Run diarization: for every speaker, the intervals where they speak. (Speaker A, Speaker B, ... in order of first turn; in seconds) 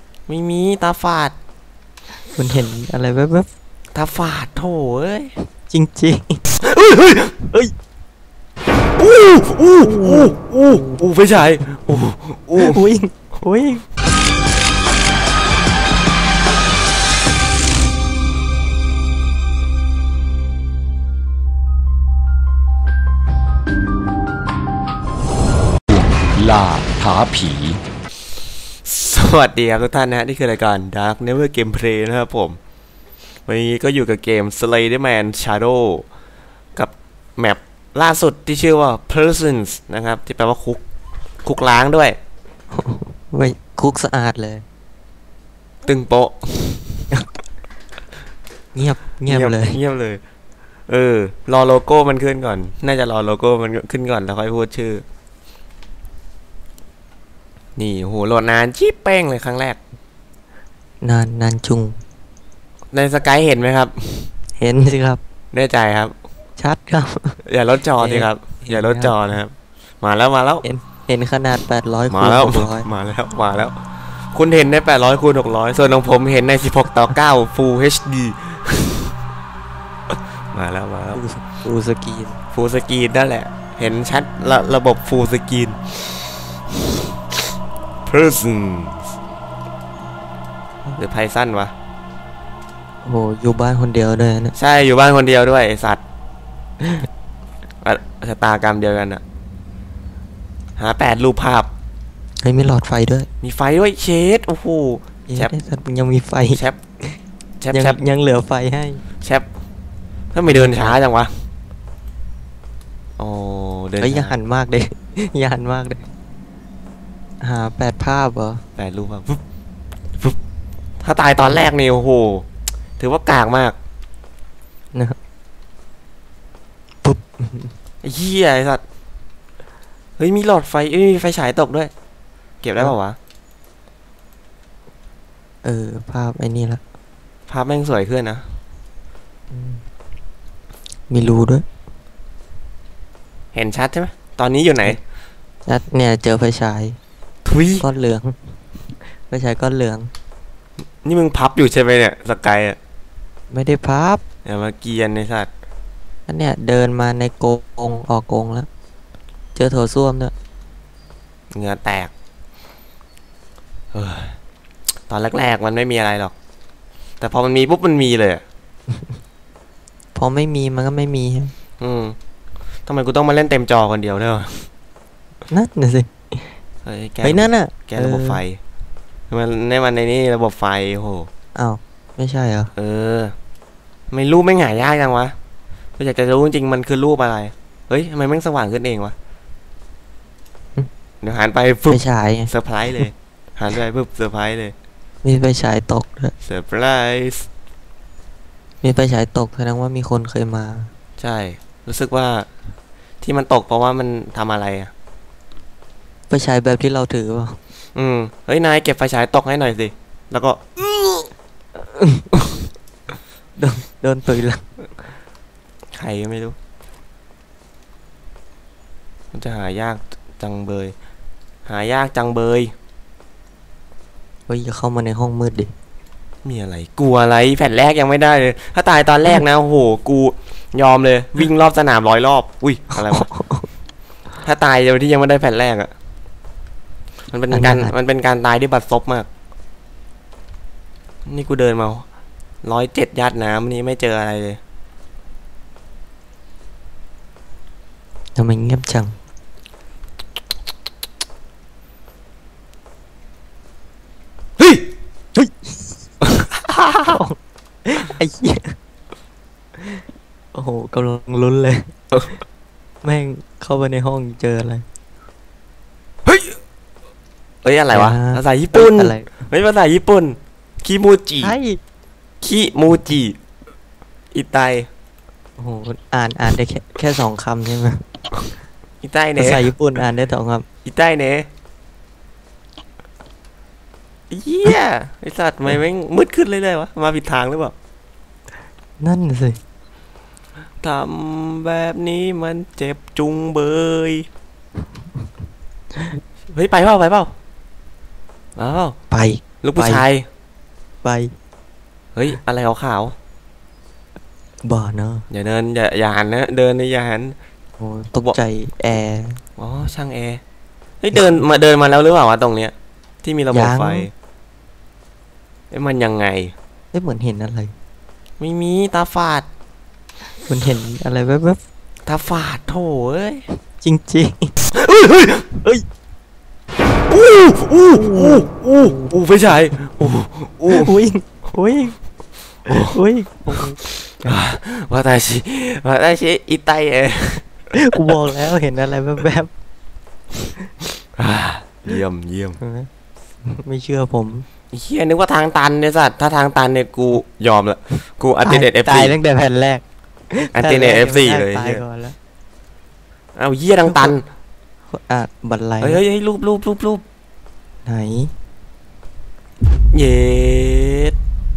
Speaker A: 0.3-1.3, 3.9-5.3, 6.6-7.3, 9.0-12.8, 28.9-32.6, 33.5-36.1, 36.8-40.8, 41.5-42.2, 45.8-47.1, 49.3-50.2, 50.9-55.0, 57.8-59.8, 62.9-64.3, 65.5-66.1, 67.5-70.6, 72.1-73.8, 74.3-79.1, 80.1-81.2, 82.5-86.1, 88.1-89.1, 91.0-91.7, 94.5-96.0, 97.8-99.2, 100.8-101.7, 103.4-105.5, 106.5-106.8, 107.6-108.0, 110.3-111.4, 113.2-114.3, 118.8-119.4, 121.0-122.5, 123.0-123.8, 128.0-128.8, 130.2-131.9, 132.6-133.2, 137.5-138.4, 143.5-145.0, 147.4-147.8, 151.0-152.8, 154.4-155.5, 161.5-162.1, 163.9-164.4, 165.1-166.3, 167.2-168.4, 171.8-172.2, 172.9-174.7, 176.8-178.6, 179.3-181.3, 182.8-183.3, 184.1-185.3, 186.0-189.1, 191.2-194.7, 196.4-197.5, 201.2-202.5, 203.2-204.9, 207.9-210.6, 215.9-216.6, 219.3-220.9, 221.7-222.7, 226.4-233.3, 234.4-235.9, 237.3-239.3, 241.3-242.0, 242.6-244.6, 266.3-266.5, 267.6-271.6, 272.4-273.4, 274.3-274.9, 279.0-279.7, 280.8-281.5, 284.3-287.7, 290.8-294.3, 296.5-297.3, 298.6-298.9, 299.6-300.2, 302.1-303.1, 305.3-307.4, 309.6-310.4, 311.0-314.1, 315.7-316.5, 318.4-319.4, 322.1-323.4, 324.7-325.4, 327.1-331.0, 332.6-332.9, 333.5-338.3, 341.1-342.6, 344.7-349.1, 350.5-351.8, 353.4-354.2, 355.8-357.0, 359.9-361.1
Speaker B: 2.3-3.5, 5.7-6.4, 9.8-11.0, 12.6-13.8, 42.7-44.6, 48.7-49.8, 61.0-62.0, 64.6-65.2, 66.6-67.4, 68.0-69.2, 70.6-72.9, 81.2-82.4, 93.0-94.5, 96.8-97.1, 102.4-103.3, 105.3-107.2, 107.7-109.0, 110.5-111.0, 114.0-116.1, 117.4-118.6, 127.0-127.7, 135.6-136.8, 139.5-139.8, 141.1-141.7, 145.7-147.0, 147.8-148.4, 149.1-150.1, 153.5-154.2, 156.3-158.7, 159.6-160.3, 170.2-171.5, 175.5-176.6, 177.2-178.4, 181.6-182.7, 191.9-192.5, 195.2-196.3, 198.8-200.9, 206.3-207.6, 211.0-211.2, 211.8-212.4, 213.6-214.7, 224.5-225.7, 233.0-233.7, 237.5-237.9, 248.3-249.2, 255.3-256.0, 256.6-258.8, 260.5-262.0, 263.0-264.8, 267.9-269.4, 271.4-271.8, 275.6-278.0, 279.4-280.6, 289.0-289.6, 299.1-300.0, 301.0-301.3, 304.6-305.2, 307.8-309.4, 313.5-314.1, 316.9-317.7, 320.4-321.6, 323.8-324.5, 328.0-329.1, 330.7-332.0, 332.8-334.4, 337.7-339.5, 342.6-342.9, 343.4-344.4, 348.4-352.1, 353.9-354.2, 354.9-356.0, 357.9-358.3
Speaker C: 25.9-27.8